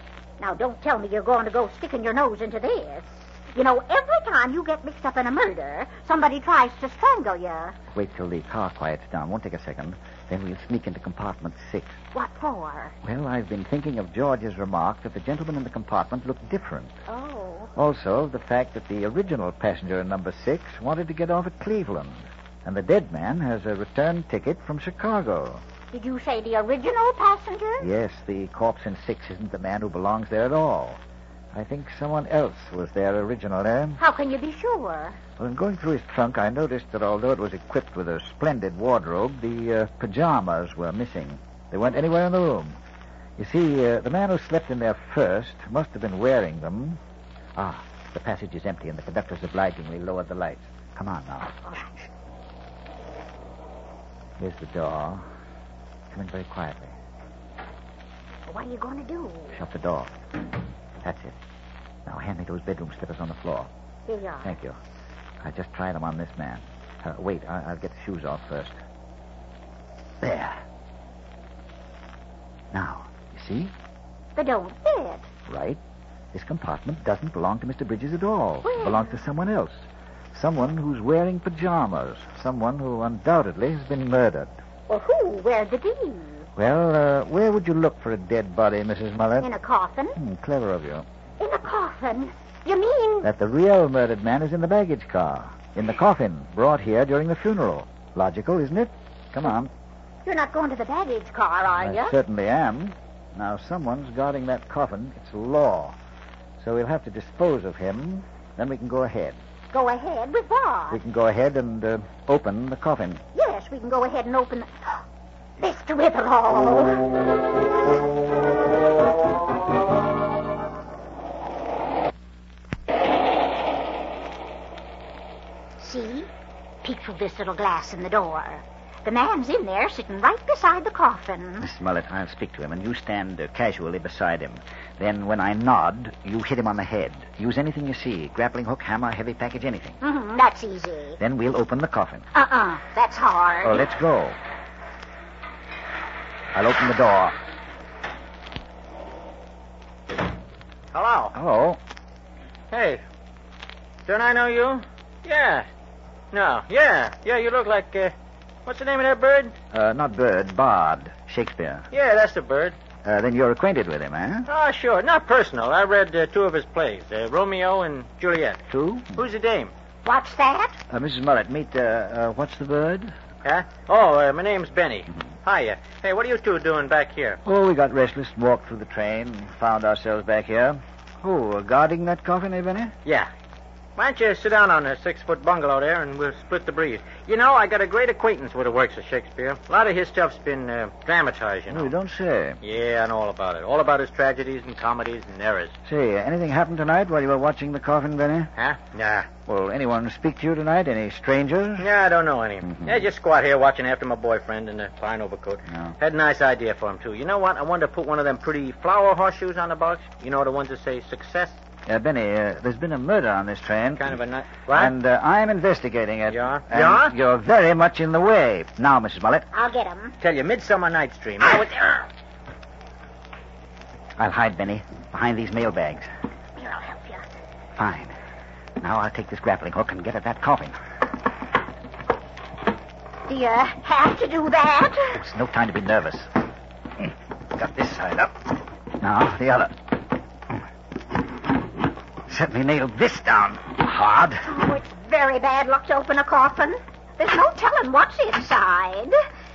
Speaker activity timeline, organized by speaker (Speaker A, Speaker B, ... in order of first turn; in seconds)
Speaker A: 0.4-7.8, 12.1-13.0, 17.1-17.7, 25.9-27.9, 34.0-35.2, 58.5-59.5, 64.1-64.5, 74.4-75.3, 78.7-79.1, 84.9-86.5, 89.4-90.2, 91.4-93.3, 100.2-102.2, 109.7-111.0, 113.3-115.0, 115.6-117.1, 125.8-126.3, 126.8-131.7, 140.0-141.2, 142.3-143.8, 170.1-170.8, 219.5-220.2, 226.6-227.3, 233.3-235.2, 244.4-249.2
Speaker B: 7.9-12.0, 13.0-17.0, 17.8-25.6, 27.8-31.0, 31.5-34.0, 35.4-42.8, 43.4-47.0, 47.6-51.7, 54.4-55.2, 56.1-56.9, 59.5-60.1, 61.0-61.4, 62.1-63.7, 64.4-64.8, 65.4-68.8, 70.2-70.6, 72.7-73.7, 75.5-75.8, 76.3-84.5, 86.6-89.5, 90.2-91.1, 93.2-99.7, 101.8-106.0, 106.6-109.4, 110.9-113.2, 131.6-140.0, 141.2-142.3, 143.6-144.4, 146.5-147.4, 151.3-151.8, 159.7-161.9, 163.0-164.5, 168.7-169.2, 170.9-173.1, 177.4-182.9, 191.7-192.6, 195.8-198.5, 199.5-201.9, 202.7-203.0, 205.7-206.0, 211.9-219.5, 224.2-226.1, 227.8-228.1, 228.8-230.8, 235.1-236.3, 237.0-238.4, 239.0-239.8, 242.3-244.5
Speaker C: 150.9-151.3, 152.7-153.0, 154.1-155.7, 156.3-158.1, 158.7-159.5, 161.9-162.8, 164.5-168.6, 169.2-169.7, 173.4-177.4, 184.0-191.9, 192.6-195.8, 198.6-199.3, 201.8-211.6, 214.0-214.9, 216.3-217.1, 220.2-222.1